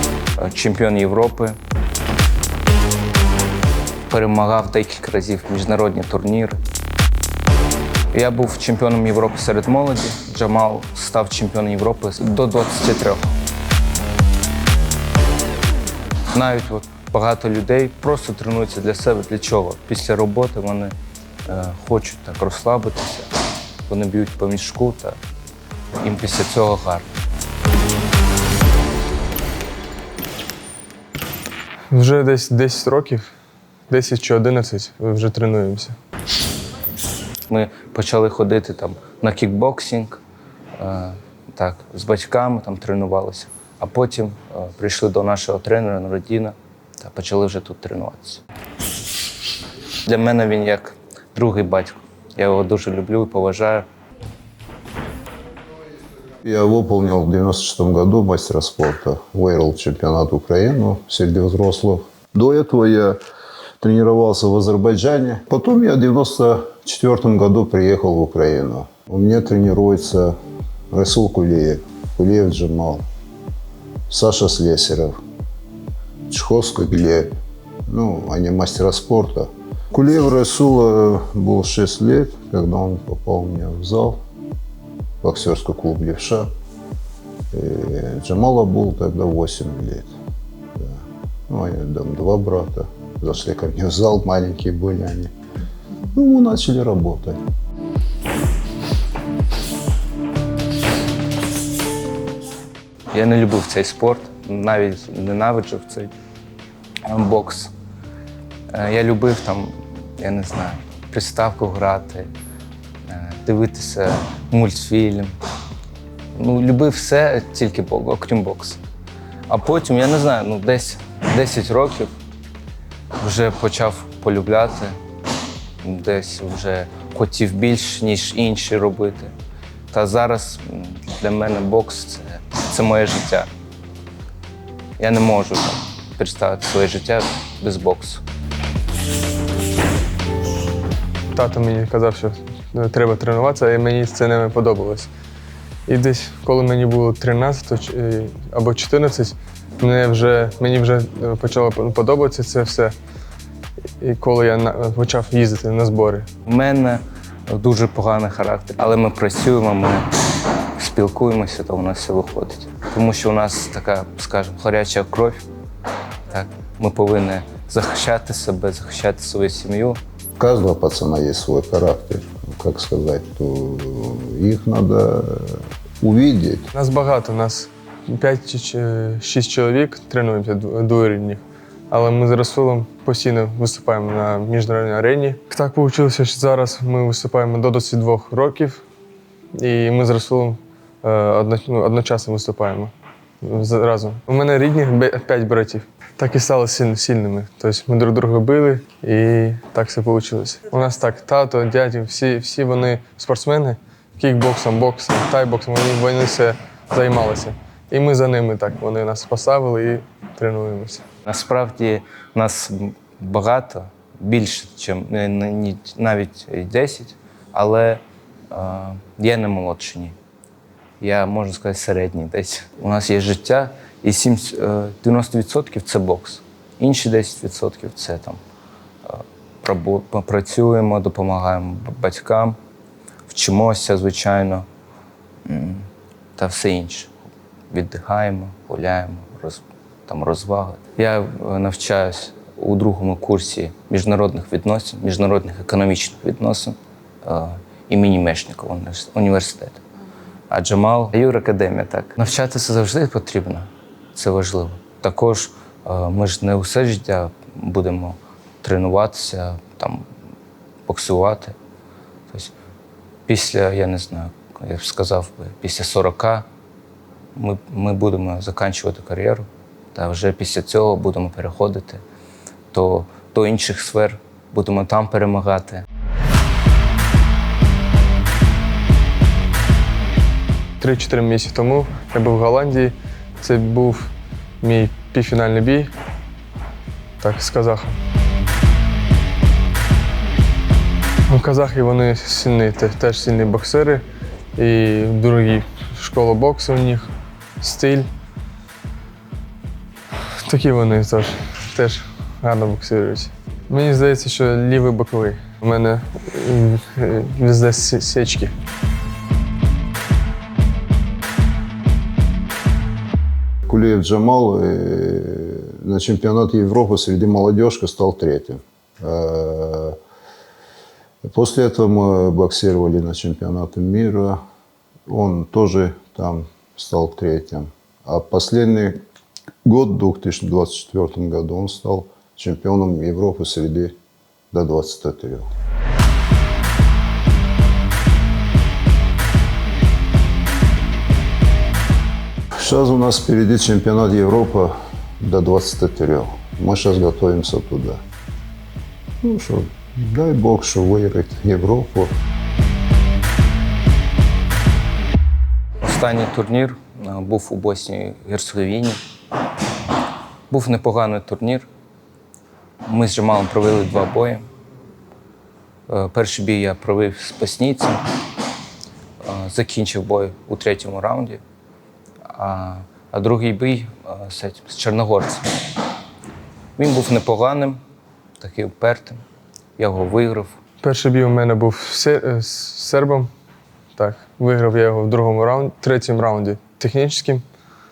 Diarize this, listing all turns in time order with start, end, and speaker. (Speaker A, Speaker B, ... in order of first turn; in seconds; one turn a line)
Speaker A: 0.4-1.6
Speaker A: 4.1-6.6
Speaker A: 8.1-13.3
Speaker A: 16.3-20.9
Speaker A: 21.4-23.3
Speaker A: 23.9-25.2
Speaker A: 26.0-27.1
Speaker B: 31.9-33.3
Speaker B: 33.9-36.0
Speaker A: 37.5-40.2
Speaker A: 40.8-48.4
Speaker A: 50.0-53.9
Speaker C: 56.4-63.2
Speaker C: 63.8-70.3
Speaker C: 70.9-73.0
Speaker C: 74.1-75.2
Speaker C: 76.3-77.3
Speaker C: 77.9-84.2
Speaker C: 85.2-86.5
Speaker C: 87.5-90.1
Speaker C: 90.8-95.3
Speaker C: 96.1-97.4
Speaker A: 103.1-106.1
Speaker A: 107.0-107.7
Speaker A: 108.7-112.3
Speaker A: 113.0-115.3
Speaker A: 116.3-118.8
Speaker A: 119.5-122.1
Speaker A: 123.2-125.0
Speaker A: 125.8-129.3
Speaker A: 129.9-133.5
Speaker A: 135.0-138.2
Speaker B: 141.3-145.1
Speaker B: 145.9-152.9
Speaker B: 154.0-156.3
Speaker A: 156.4-160.1
Speaker A: 160.8-165.4
Speaker A: 166.3-170.0
Speaker C: 170.4-176.7
Speaker B: 176.7-188.8
Speaker B: 189.5-211.0
Speaker A: 211.2-220.1
Speaker A: 221.0-228.4
Speaker A: 229.1-232.6
Speaker A: 233.3-234.7
Speaker A: 235.4-237.1
Speaker A: 237.7-249.8
Speaker A: 250.5-260.1
Speaker A: 260.9-261.6
Speaker A: 263.3-266.5
Speaker A: 267.3-272.0
Speaker A: 272.7-275.8
Speaker B: 280.8-284.1
Speaker B: 284.6-285.9
Speaker B: 287.2-288.0
Speaker B: 291.3-294.0
Speaker B: 294.6-298.1
Speaker B: 300.4-308.5
Speaker C: 313.7-320.0
Speaker C: 321.2-324.4
Speaker C: 325.1-329.0
Speaker C: 329.6-334.0
Speaker C: 334.5-335.5
Speaker C: 342.6-348.0
Speaker C: 349.2-352.1
Speaker A: 355.8-359.0
Speaker A: 360.5-361.7
Speaker A: 362.8-364.4
Speaker A: 365.9-368.0
Speaker A: 369.2-371.4
Speaker A: 372.2-375.5
Speaker A: 376.8-377.8
Speaker A: 378.4-379.2
Speaker A: 379.8-380.5
Speaker B: 380.8-383.3
Speaker B: 383.9-387.4